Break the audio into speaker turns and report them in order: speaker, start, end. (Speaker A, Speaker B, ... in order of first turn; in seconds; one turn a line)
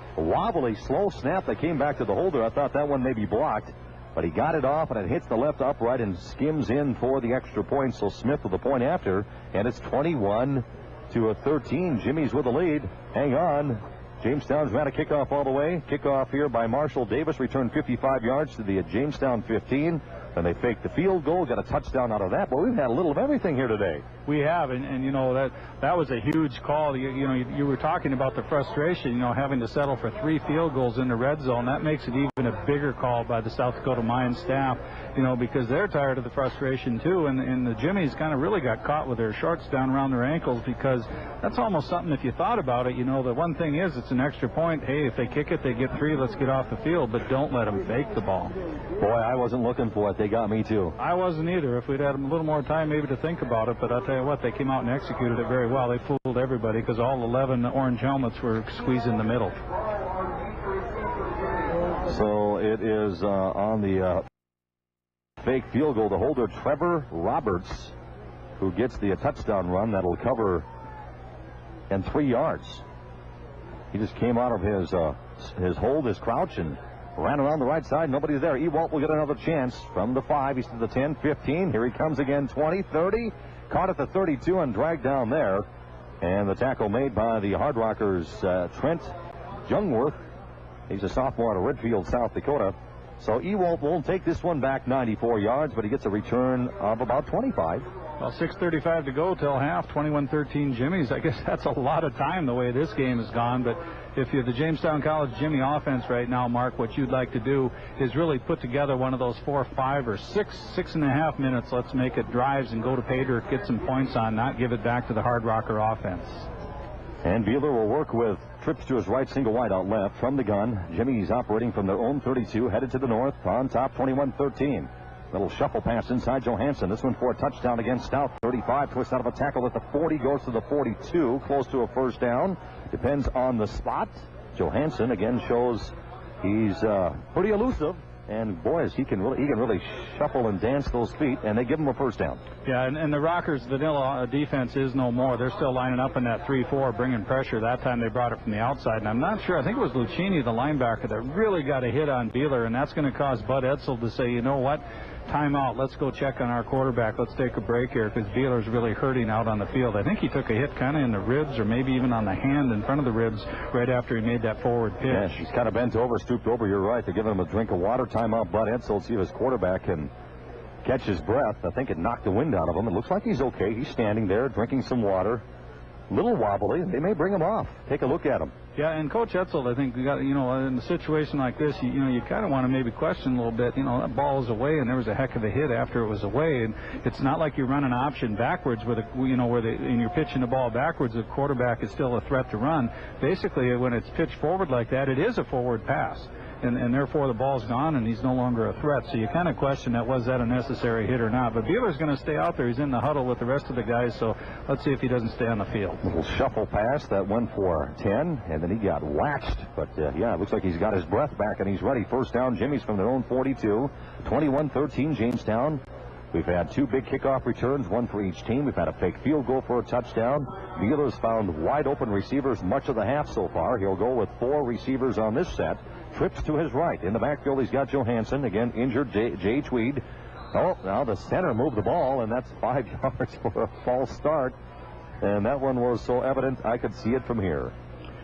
Speaker A: 0.2-24.0
Speaker B: 24.3-48.5
Speaker A: 49.0-51.0
Speaker B: 51.0-59.6
Speaker A: 62.1-64.2
Speaker A: 65.4-67.9
Speaker A: 68.6-70.7
Speaker A: 71.9-72.8
Speaker A: 73.9-85.7
Speaker A: 86.2-89.1
Speaker A: 89.7-90.2
Speaker A: 90.9-97.9
Speaker B: 98.2-116.5
Speaker A: 117.2-142.4
Speaker B: 142.7-165.4
Speaker A: 165.1-170.1
Speaker A: 170.8-175.4
Speaker A: 176.1-178.5
Speaker B: 178.8-206.0
Speaker A: 206.0-234.6
Speaker A: 235.2-237.7